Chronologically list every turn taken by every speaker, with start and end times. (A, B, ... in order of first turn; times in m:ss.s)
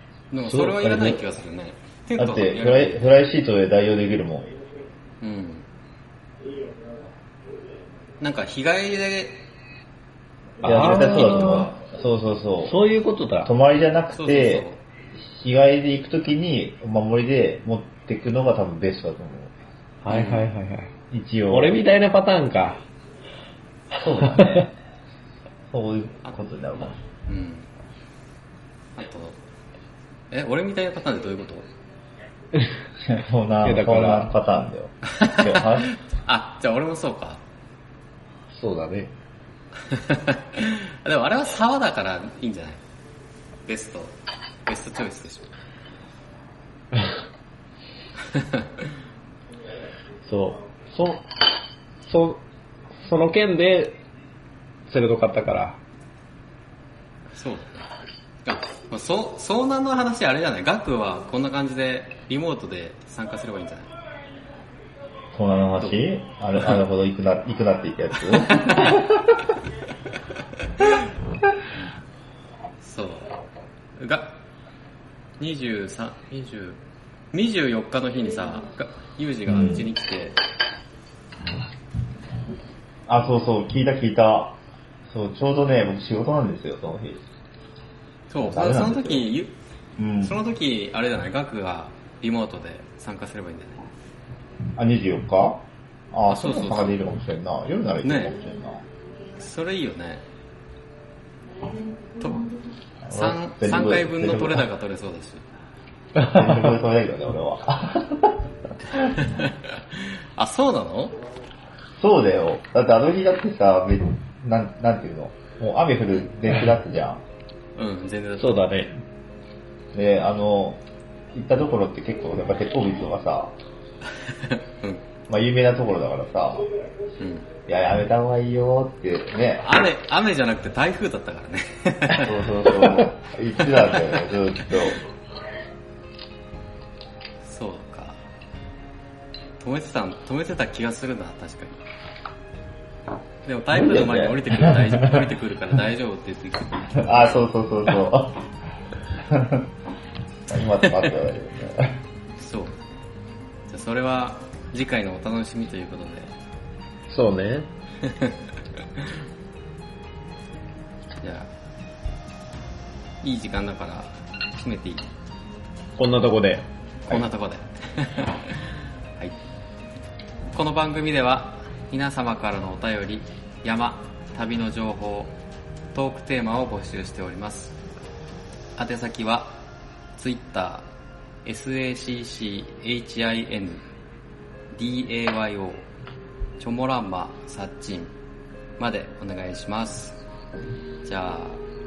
0:00.3-0:03.1 A
0:00.4-0:01.2 B
0:02.2-0:04.6 C
0:05.2-0:05.6 A
0:08.2-0:09.4 A
0:10.6-0:11.7 B
0:10.6-0:12.8 C
0:10.6-0:11.7 A
0:12.6-0:13.5 B
0:13.4-0:19.5 C
0:14.1-0:14.8 A
0:20.0-0:20.9 B
0:20.1-0:20.5 A
0:21.1-0:21.8 C
0:21.5-0:22.8 B
0:24.0-0:24.8 C
0:24.2-0:24.7 B
0:25.7-0:27.0 C
0:27.3-0:27.7 A
0:29.0-0:29.4 A
0:30.3-0:31.7 A
0:33.0-0:35.9 C
0:33.6-0:34.3 B
0:35.1-0:37.4 A
0:38.5-0:39.1 B
0:39.8-0:42.8 A
0:43.6-0:45.5 A
0:48.3-0:48.9 A
0:50.2-0:51.2 B
0:52.0-0:52.4 B
0:53.0-0:54.0 B
0:54.9-0:55.8 B
0:57.3-0:57.9 A
0:58.4-1:03.9 A
1:05.3-1:09.2 C
1:08.3-1:09.0 A
1:12.8-1:13.4 A
1:14.0-1:14.4 A
1:15.4-1:16.8 A
1:17.3-1:20.4 A
1:19.5-1:19.9 C
1:23.1-1:27.2 C
1:28.3-1:29.5 A
1:28.4-1:29.3 C
1:30.0-1:30.4 C
1:30.2-1:33.8 A
1:34.8-1:38.8 C
1:36.3-1:36.9 A
1:38.0-1:38.4 A
1:39.4-1:40.2 A
1:42.2-1:42.5 A
1:43.0-1:44.6 C
1:43.1-1:45.4 A
1:46.2-1:49.2 C
1:49.2-1:51.2 A
1:52.0-1:57.2 C
1:57.7-1:58.8 A
1:58.4-1:58.9 B
1:59.9-2:00.8 C
2:01.3-2:03.5 C
2:04.2-2:05.0 A
2:05.3-2:06.7 C
2:07.2-2:07.5 A
2:07.7-2:09.7 C
2:09.6-2:12.3 A
2:12.1-2:15.0 C
2:13.8-2:14.2 A
2:17.4-2:18.2 A
2:19.6-2:21.8 A
2:23.4-2:27.4 A
2:23.7-2:25.3 C
2:27.0-2:28.4 C
2:29.2-2:29.7 C
2:30.5-2:32.0 C
2:30.8-2:31.1 A
2:32.4-2:32.8 A
2:33.7-2:36.3 A
2:37.1-2:37.7 B
2:38.0-2:38.4 A
2:41.2-2:41.5 A
2:43.2-2:45.1 A
2:46.0-2:47.2 B
2:47.1-2:49.3 A
2:50.5-2:55.4 A
2:55.9-2:57.8 A
2:58.8-2:59.5 A
3:00.2-3:00.9 A
3:01.4-3:03.8 A
3:04.7-3:05.8 A
3:06.6-3:08.1 A
3:08.8-3:10.2 A
3:11.0-3:11.6 A